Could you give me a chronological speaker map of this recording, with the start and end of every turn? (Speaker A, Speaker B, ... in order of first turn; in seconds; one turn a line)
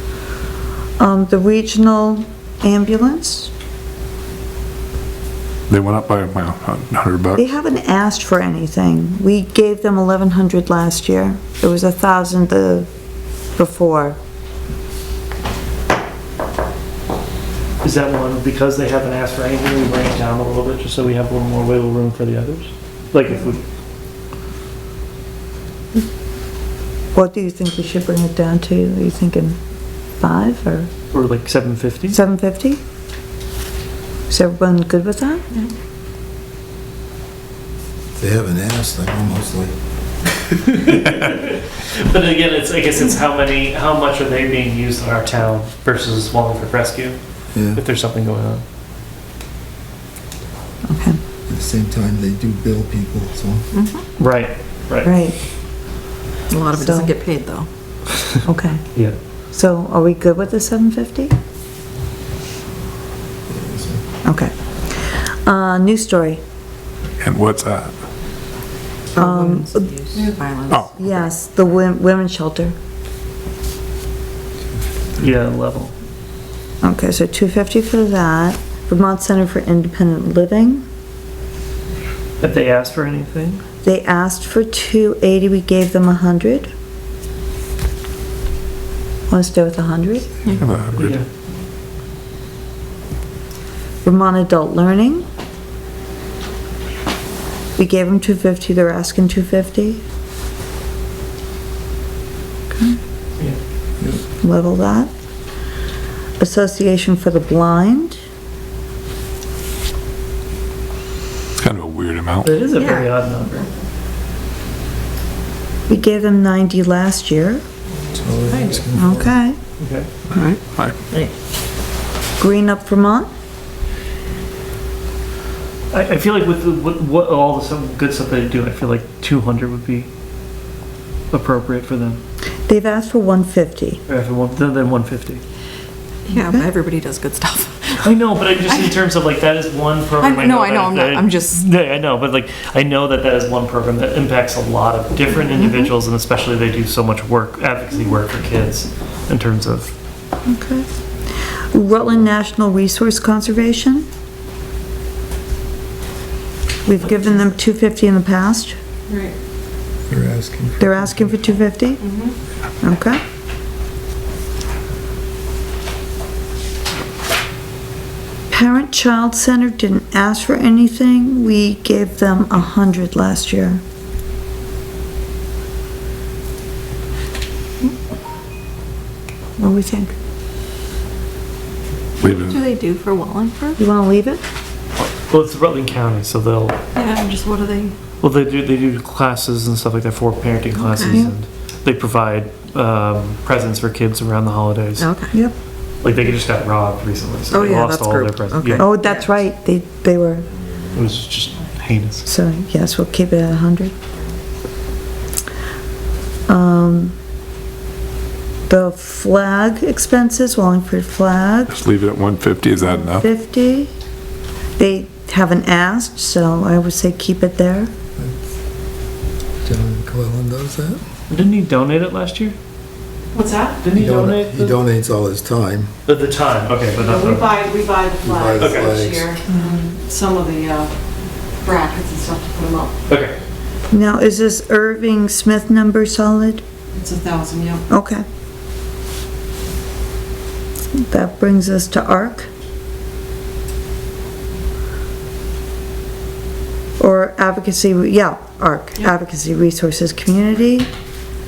Speaker A: 1.0-3.5
Speaker B: 5.7-7.4
Speaker A: 7.3-12.9
Speaker A: 13.6-14.2
Speaker C: 17.8-23.6
Speaker A: 27.1-29.6
Speaker A: 30.2-30.9
Speaker C: 31.1-32.2
Speaker A: 32.1-32.8
Speaker A: 34.3-35.5
Speaker D: 38.2-39.8
Speaker C: 40.8-47.2
Speaker D: 47.5-47.8
Speaker C: 47.7-48.6
Speaker A: 50.9-51.2
Speaker D: 51.5-53.7
Speaker E: 53.7-54.0
Speaker C: 54.2-55.1
Speaker A: 55.0-55.4
Speaker E: 56.5-57.7
Speaker A: 56.7-57.1
Speaker A: 58.5-58.8
Speaker A: 59.5-61.3
Speaker D: 63.5-64.0
Speaker A: 64.2-66.4
Speaker B: 67.2-68.0
Speaker E: 69.1-70.9
Speaker A: 69.2-69.9
Speaker B: 70.7-71.0
Speaker A: 70.9-72.8
Speaker C: 75.2-75.9
Speaker A: 76.8-80.8
Speaker C: 82.4-83.6
Speaker A: 83.8-86.7
Speaker A: 89.3-90.4
Speaker B: 90.6-91.2
Speaker C: 91.0-91.3
Speaker A: 94.0-95.3
Speaker A: 97.8-100.0
Speaker A: 102.7-103.0
Speaker A: 104.4-105.1
Speaker A: 106.4-108.2
Speaker B: 111.6-112.5
Speaker C: 112.4-113.7
Speaker E: 112.7-113.1
Speaker A: 115.9-117.6
Speaker D: 118.1-119.3
Speaker E: 118.5-118.8
Speaker A: 119.0-119.6
Speaker C: 119.8-120.1
Speaker B: 120.3-121.0
Speaker A: 122.4-123.3
Speaker C: 125.9-130.1
Speaker C: 131.3-132.2
Speaker A: 132.7-134.0
Speaker C: 134.1-135.4
Speaker E: 136.3-138.1
Speaker A: 136.4-136.7
Speaker C: 138.0-149.9
Speaker E: 138.7-139.0
Speaker E: 140.2-141.6
Speaker E: 145.4-145.9
Speaker A: 150.5-150.9
Speaker A: 151.7-154.1
Speaker A: 156.9-158.8
Speaker D: 160.1-161.3
Speaker A: 160.8-162.1
Speaker A: 162.8-163.2
Speaker A: 168.5-173.8
Speaker A: 179.6-180.1
Speaker E: 182.2-183.8
Speaker B: 182.2-182.6
Speaker A: 183.8-184.4
Speaker C: 185.3-186.8
Speaker E: 186.9-188.0
Speaker C: 188.2-195.1
Speaker E: 190.8-191.3
Speaker E: 195.0-195.3
Speaker C: 196.0-198.9
Speaker E: 197.5-199.4
Speaker A: 198.8-200.5
Speaker C: 200.9-202.2
Speaker A: 202.2-203.9
Speaker A: 206.5-207.1
Speaker A: 208.7-211.7
Speaker B: 211.7-213.3
Speaker A: 212.8-213.9
Speaker A: 214.8-217.9
Speaker D: 219.7-221.0
Speaker C: 221.3-222.6
Speaker F: 223.3-223.9
Speaker C: 223.8-224.8
Speaker D: 223.9-225.9
Speaker C: 226.1-227.6
Speaker F: 227.0-230.9
Speaker D: 228.2-229.3
Speaker C: 228.6-229.0
Speaker A: 229.5-229.8
Speaker F: 231.6-232.9
Speaker C: 233.1-233.4
Speaker A: 233.9-236.6
Speaker F: 237.0-237.8
Speaker A: 237.9-238.2
Speaker A: 240.9-242.5
Speaker A: 247.0-250.9